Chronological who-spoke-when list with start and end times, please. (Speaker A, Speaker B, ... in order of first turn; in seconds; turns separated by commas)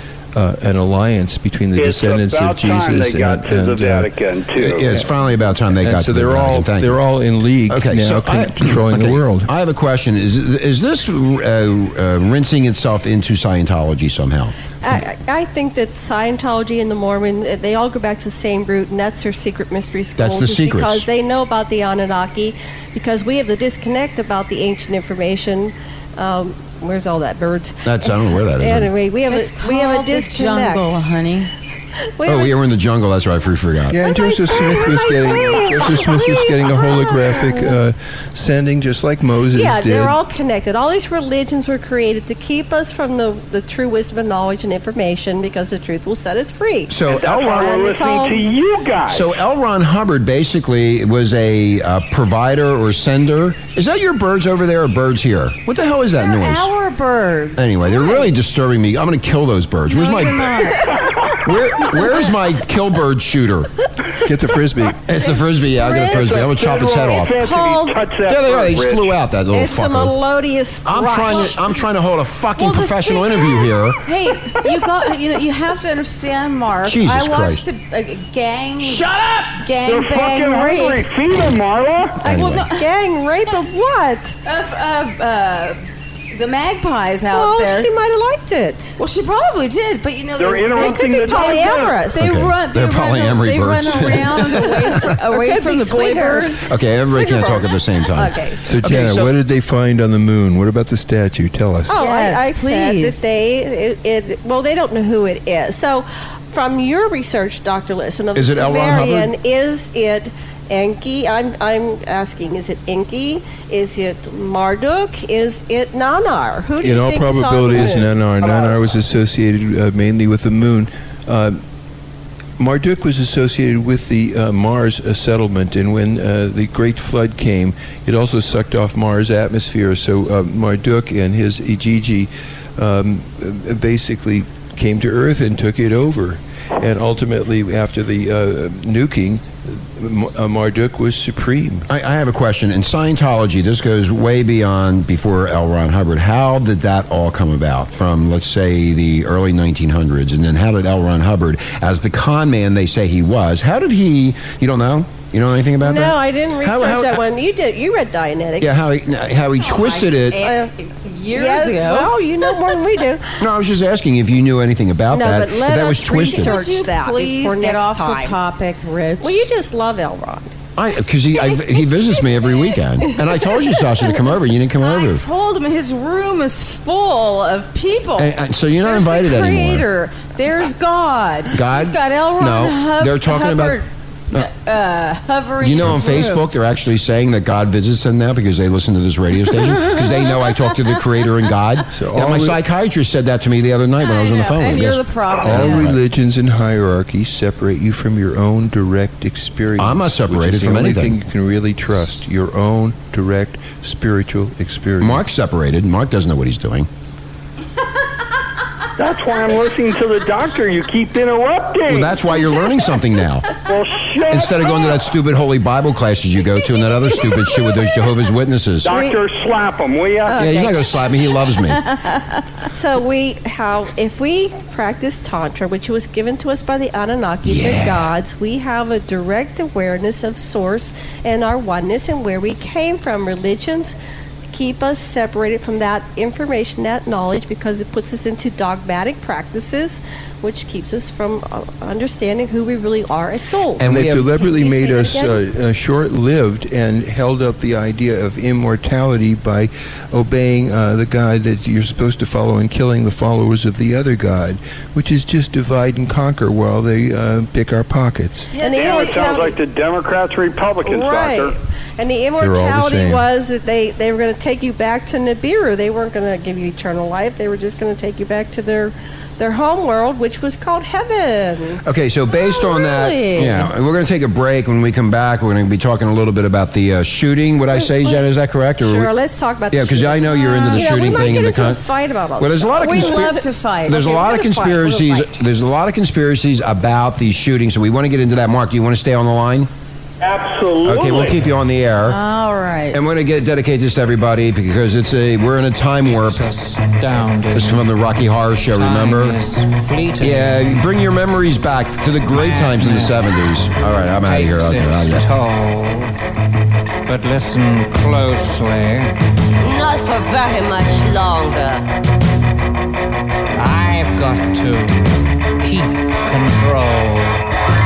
Speaker A: 0.3-4.1, Speaker B: 1.8-4.9, Speaker C: 4.6-7.0, Speaker A: 5.8-9.5, Speaker C: 7.7-14.6, Speaker D: 14.8-30.9, Speaker C: 20.2-21.1, Speaker C: 27.9-28.9, Speaker E: 29.3-31.5, Speaker D: 32.2-32.5, Speaker C: 32.2-34.0, Speaker A: 33.9-40.2, Speaker D: 34.0-36.4, Speaker D: 39.5-48.5, Speaker C: 46.9-47.8, Speaker B: 47.0-49.3, Speaker C: 49.1-56.7, Speaker E: 56.2-58.3, Speaker C: 57.6-60.8, Speaker E: 59.9-60.9, Speaker C: 61.4-63.7, Speaker A: 64.2-65.0, Speaker C: 65.1-67.5, Speaker E: 65.2-68.0, Speaker B: 66.1-69.1, Speaker C: 68.3-70.1, Speaker D: 69.5-71.5, Speaker C: 70.9-74.0, Speaker E: 72.6-79.1, Speaker C: 76.8-77.6, Speaker C: 78.8-79.6, Speaker E: 79.6-81.0, Speaker B: 79.8-82.2, Speaker E: 82.2-82.9, Speaker C: 82.2-82.7, Speaker D: 82.6-84.3, Speaker E: 84.5-85.8, Speaker E: 86.3-87.9, Speaker D: 87.3-89.0, Speaker E: 89.0-96.6, Speaker B: 90.4-92.0, Speaker D: 90.7-92.2, Speaker C: 92.2-95.1, Speaker D: 95.3-98.6, Speaker C: 96.7-99.3, Speaker A: 98.6-102.0, Speaker D: 101.9-118.1, Speaker E: 101.9-103.2, Speaker C: 108.3-109.3, Speaker A: 116.8-121.6, Speaker A: 122.6-141.9, Speaker C: 141.9-157.2, Speaker D: 155.8-158.9, Speaker C: 158.6-160.4, Speaker E: 159.6-162.1, Speaker D: 160.4-160.7, Speaker D: 161.3-163.2, Speaker C: 163.4-166.6, Speaker D: 165.1-168.4, Speaker E: 166.2-169.4, Speaker D: 169.2-170.5, Speaker C: 170.8-175.2, Speaker E: 174.8-178.3, Speaker C: 178.2-179.9, Speaker E: 178.8-186.4, Speaker C: 181.5-183.8, Speaker C: 185.6-196.0, Speaker A: 191.9-192.6, Speaker E: 194.0-195.9, Speaker A: 195.4-205.2, Speaker C: 199.8-201.2, Speaker C: 205.0-206.9, Speaker B: 209.0-212.2, Speaker C: 211.9-213.5, Speaker B: 213.7-215.1, Speaker C: 214.3-219.0, Speaker B: 218.8-220.5, Speaker D: 218.9-219.2, Speaker D: 220.3-221.1, Speaker C: 220.4-221.8, Speaker D: 222.7-233.9, Speaker C: 227.4-228.0, Speaker D: 234.5-245.4, Speaker C: 243.8-244.3, Speaker A: 243.8-258.5, Speaker E: 258.5-259.6, Speaker D: 258.6-259.6, Speaker B: 258.7-261.6, Speaker D: 260.9-271.8, Speaker A: 262.4-263.2, Speaker C: 271.8-279.1, Speaker E: 272.3-273.7, Speaker D: 277.8-278.2, Speaker D: 278.8-283.4, Speaker C: 279.7-281.8, Speaker E: 280.5-281.3, Speaker C: 282.4-289.7, Speaker E: 282.8-285.2, Speaker B: 290.2-291.4, Speaker C: 290.8-292.2, Speaker E: 292.1-293.0, Speaker C: 292.9-296.4, Speaker F: 296.1-297.9, Speaker C: 297.5-299.4, Speaker F: 298.7-300.7, Speaker C: 300.2-305.3, Speaker F: 302.3-303.4, Speaker F: 304.2-306.1, Speaker F: 307.1-309.1, Speaker G: 309.6-311.8, Speaker F: 313.6-317.4